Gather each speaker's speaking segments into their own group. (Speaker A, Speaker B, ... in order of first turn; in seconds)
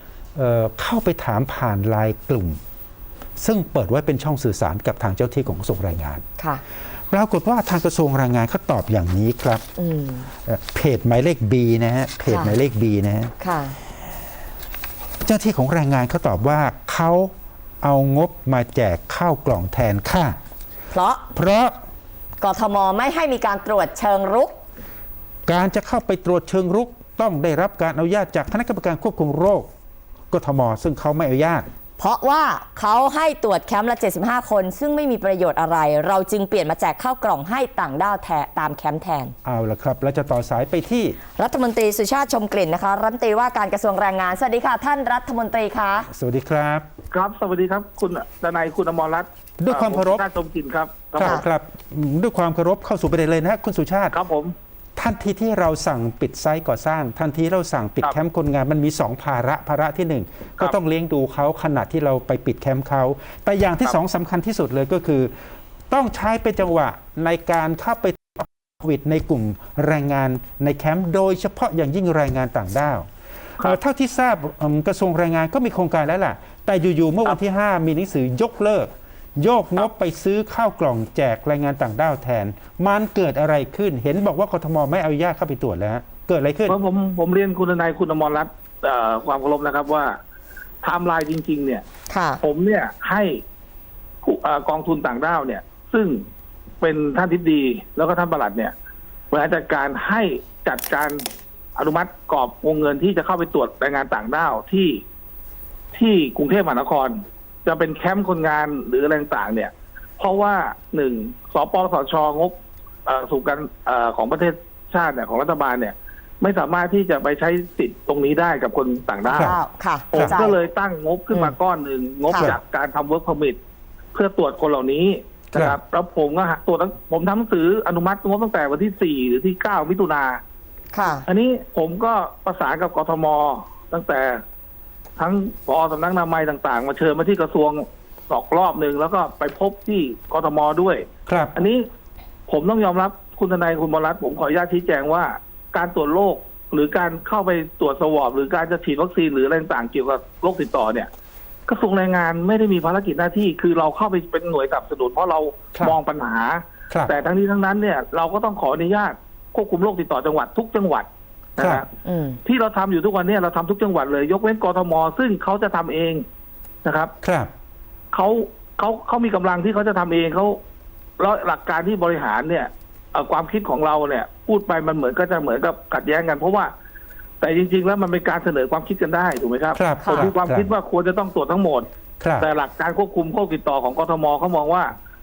Speaker A: 0.3-2.6, 3.4-6.2, 7.1-9.6, 10.4-13.3, 15.2-20.4, 21.3-21.8, 25.5-29.7, 30.3-31.7, 39.4-41.2, 46.1-46.9, 49.6-50.2, 51.2-54.1, 55.0-65.3, 65.9-73.1, 73.6-86.8, 119.3-119.6, 120.1-120.4, 125.5-125.8, 141.3-141.5, 161.6-161.8, 167.2-167.5, 179.7-180.7, 182.2-182.5
Speaker B: 9.8-10.3, 12.2-12.5, 13.4-13.8, 20.9-21.3, 22.4-24.5, 32.0-39.3, 41.4-46.1, 92.1-92.4, 119.3-120.6, 122.3-122.5, 130.9-131.2, 162.0-162.4, 180.0-180.3
Speaker C: 47.1-51.3, 54.1-54.5, 86.7-90.1, 90.8-91.8, 92.4-93.4, 94.2-96.2, 96.8-98.7, 99.3-101.2, 101.8-105.0, 105.9-112.5, 113.0-119.5, 120.1-123.6, 124.1-130.4, 131.3-134.4, 135.2-141.1, 141.6-141.8, 142.5-151.1, 151.7-161.1, 162.5-166.2, 166.8-167.1, 168.1-170.6, 171.2-176.7, 177.4-181.9, 182.4-184.9